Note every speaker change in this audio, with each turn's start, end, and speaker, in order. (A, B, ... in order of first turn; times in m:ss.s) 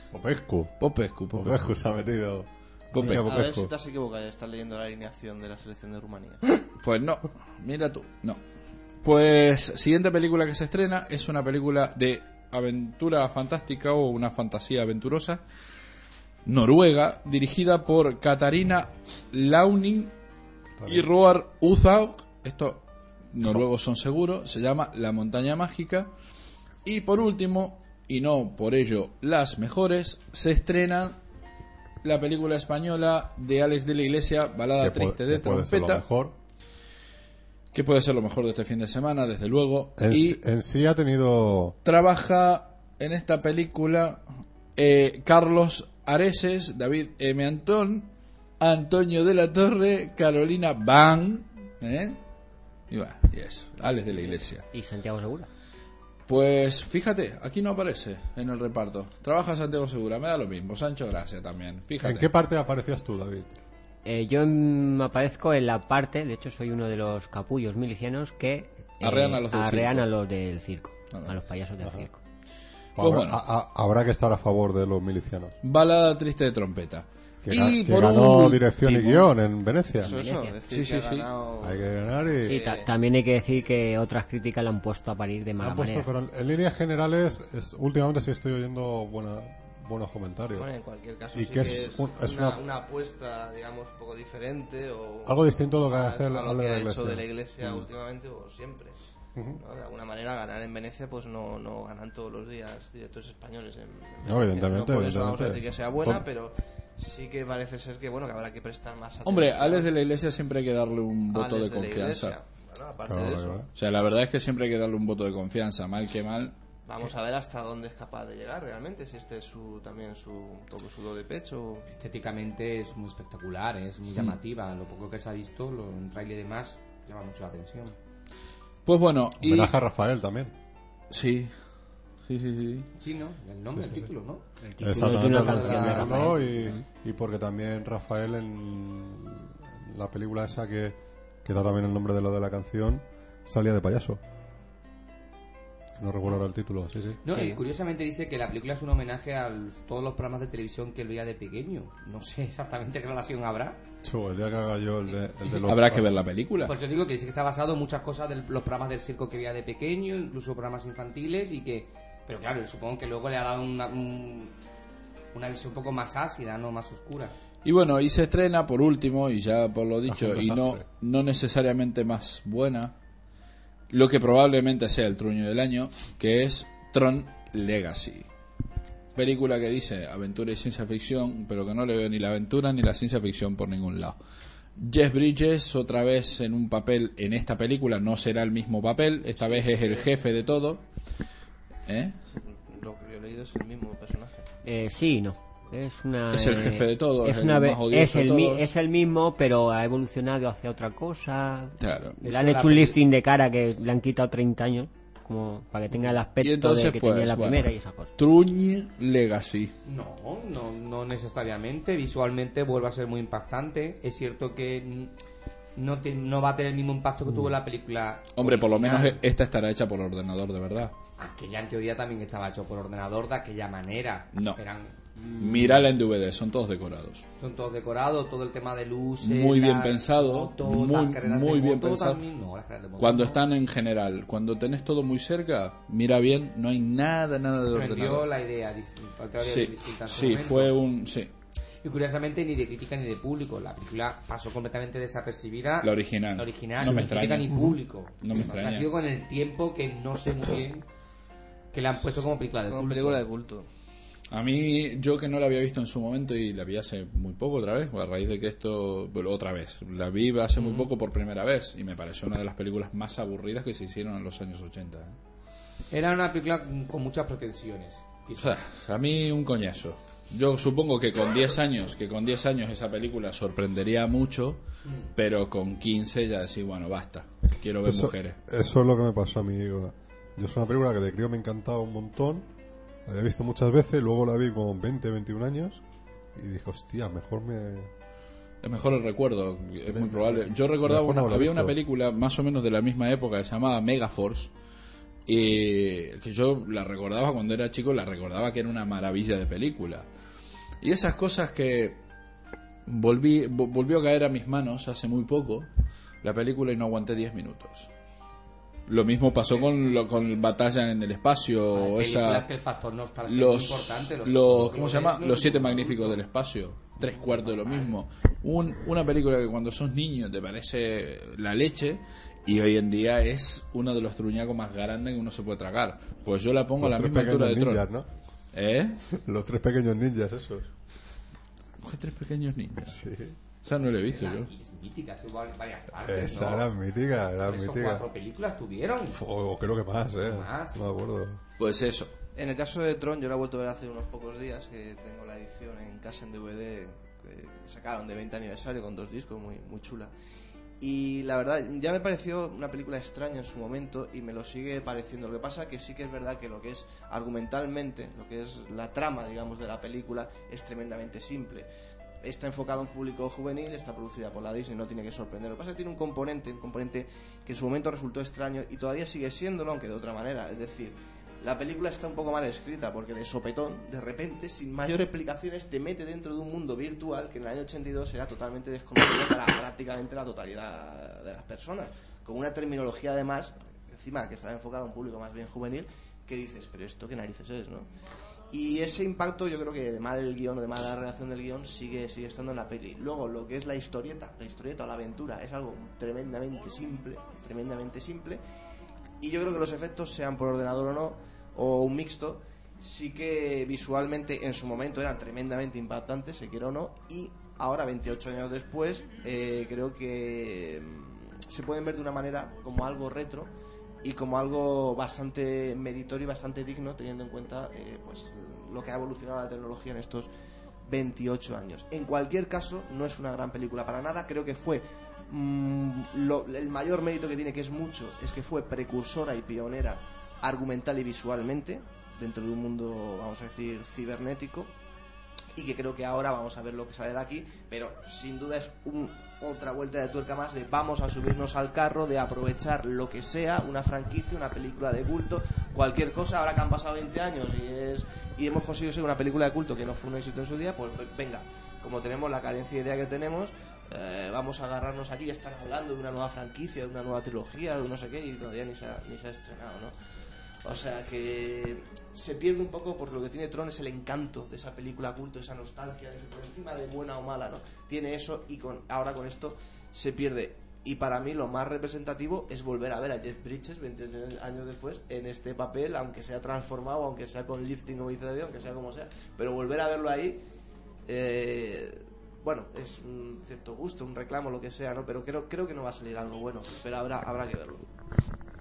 0:00.1-0:00.7 A
0:00.8-0:01.6 B
0:01.3-0:03.7 A
0:02.9-0:03.3 B
0:03.0-0:06.6 C
0:06.8-0:08.4 B
0:09.0-0:15.4 B
0:16.4-0:20.1 B
0:20.8-0:21.1 A
0:20.9-0:26.1 B
0:26.8-0:31.2 B
0:32.0-0:36.0 B
0:34.8-0:36.4 A
0:37.7-0:40.4 B
0:40.0-0:41.8 A
0:41.8-0:44.2 B
0:44.8-0:52.2 B
0:52.9-0:54.7 B
0:54.7-0:55.5 D
0:56.3-1:02.3 B
1:02.0-1:03.5 A
1:04.0-1:12.2 D
1:09.0-1:10.1 B
1:11.1-1:11.4 B
1:11.8-1:12.1 A
1:13.0-1:13.4 B
1:13.0-1:15.5 A
1:15.6-1:19.3 B
1:17.4-1:20.2 A
1:20.0-1:22.9 C
1:20.0-1:20.6 D
1:20.7-1:21.3 B
1:21.6-1:22.6 A
1:22.5-1:26.1 D
1:25.6-1:30.7 A
1:30.5-1:39.0 C
1:31.3-1:32.6 A
1:35.3-1:37.9 A
1:39.4-1:39.6 A
1:39.6-1:49.9 C
1:44.2-1:46.2 A
1:49.2-1:52.4 B
1:51.3-1:53.6 C
1:53.1-1:53.7 A
1:53.7-1:56.6 B
1:56.9-2:01.9 C
2:01.9-2:08.0 E
2:08.9-2:09.7 B
2:09.4-2:10.5 A
2:11.1-2:11.5 B
2:12.2-2:12.9 B
2:13.0-2:16.4 E
2:14.7-2:16.8 D
2:14.8-2:24.2 A
2:26.0-2:27.2 A
2:27.2-2:33.8 E
2:27.3-2:27.6 D
2:34.0-2:36.1 A
2:35.6-2:36.7 B
2:36.6-2:44.5 E
2:45.3-2:47.4 E
2:47.6-2:52.9 B
2:50.1-2:50.8 A
2:53.9-2:58.3 B
2:59.2-3:04.2 B
3:04.8-3:10.8 B
3:09.4-3:10.1 C
3:11.9-3:12.2 B
3:12.3-3:14.5 C
3:14.6-3:28.1 D
3:16.3-3:18.7 B
3:21.8-3:22.2 B
3:22.2-3:23.0 E
3:26.4-3:29.7 B
3:29.8-3:35.1 E
3:35.8-3:39.2 E
3:38.4-3:40.9 B
3:41.2-3:45.0 E
3:44.3-3:44.6 B
3:45.4-3:47.3 B
3:45.4-3:45.7 A
3:47.4-3:53.4 E
3:49.2-3:52.2 B
3:53.0-3:58.3 B
3:57.7-4:00.8 E
3:59.4-4:01.3 B
4:01.8-4:10.9 E
4:05.8-4:08.9 B
4:11.7-4:13.2 E
4:12.7-4:13.7 C
4:14.3-4:25.2 B
4:20.6-4:20.9 E
4:25.9-4:28.6 E
4:28.4-4:34.6 B
4:35.2-4:38.4 B
4:37.8-4:42.5 A
4:43.1-4:45.8 A
4:46.4-4:47.9 A
4:48.6-4:54.5 B
4:49.9-4:51.8 A
4:55.3-5:00.1 B
5:00.8-5:02.0 B
5:02.9-5:05.7 B
5:06.2-5:07.9 B
5:08.9-5:12.5 B
5:11.7-5:16.2 E
5:13.3-5:27.9 B
5:17.0-5:17.9 E
5:26.8-5:28.1 A
5:28.5-5:29.0 B
5:29.1-5:30.7 A
5:31.8-5:33.0 B
5:32.9-5:33.4 A
5:33.6-5:34.5 B
5:34.1-5:36.7 E
5:36.0-5:38.0 A
5:37.5-5:39.2 E
5:39.1-5:41.4 A
5:40.2-5:40.8 E
5:41.6-5:42.1 B
5:42.4-5:50.1 C
5:50.8-6:01.7 C
6:02.2-6:27.9 C
6:28.5-6:38.4 C
6:39.2-6:53.5 C
6:54.0-7:00.3 C
7:00.8-7:14.7 C
7:15.6-7:39.9 C
7:40.6-8:00.4 C
8:01.1-8:07.9 C